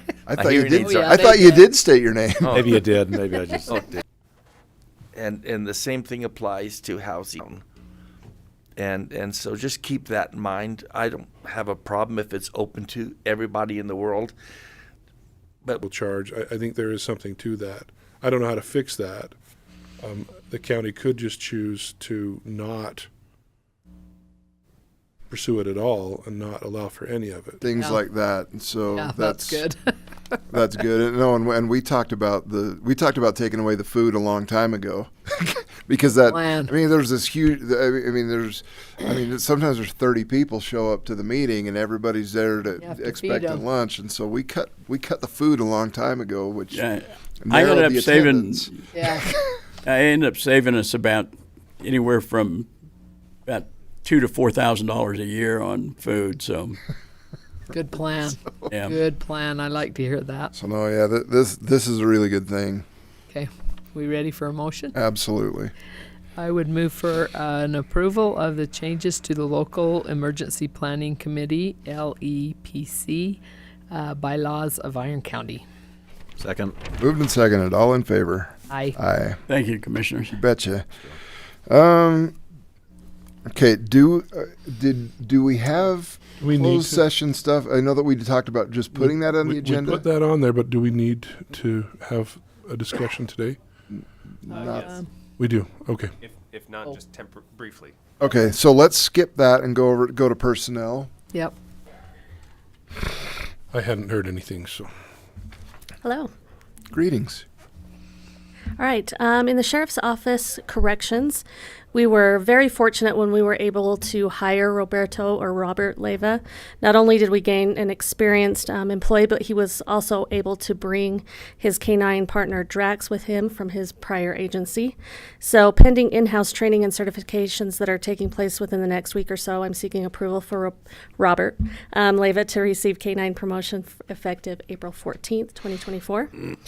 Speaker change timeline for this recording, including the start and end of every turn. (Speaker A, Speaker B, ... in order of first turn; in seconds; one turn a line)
Speaker A: 0.3-2.8
Speaker B: 0.3-1.6
Speaker C: 0.8-1.7
Speaker D: 2.5-4.0
Speaker B: 5.1-7.6
Speaker B: 8.8-14.4
Speaker E: 15.8-19.3
Speaker E: 20.0-23.1
Speaker E: 25.3-27.6
Speaker A: 27.6-29.7
Speaker C: 27.8-28.0
Speaker C: 28.9-29.9
Speaker A: 30.5-46.9
Speaker C: 36.3-36.7
Speaker C: 42.8-43.6
Speaker F: 46.7-49.0
Speaker A: 47.4-49.2
Speaker C: 48.9-49.3
Speaker F: 49.8-52.7
Speaker F: 53.5-56.8
Speaker C: 57.7-60.5
Speaker F: 58.7-59.0
Speaker A: 60.5-62.9
Speaker C: 63.3-65.0
Speaker A: 64.9-65.7
Speaker C: 66.4-75.7
Speaker D: 76.4-76.8
Speaker A: 76.9-79.4
Speaker C: 78.7-79.0
Speaker F: 79.5-80.4
Speaker A: 80.3-80.9
Speaker A: 81.7-82.3
Speaker A: 83.5-90.1
Speaker E: 86.4-87.1
Speaker E: 88.9-93.6
Speaker A: 93.9-94.9
Speaker G: 94.5-95.0
Speaker C: 94.5-95.1
Speaker E: 95.4-96.1
Speaker G: 96.2-98.0
Speaker A: 98.2-101.1
Speaker E: 103.7-104.9
Speaker H: 106.0-106.3
Speaker A: 106.9-107.5
Speaker H: 108.8-136.5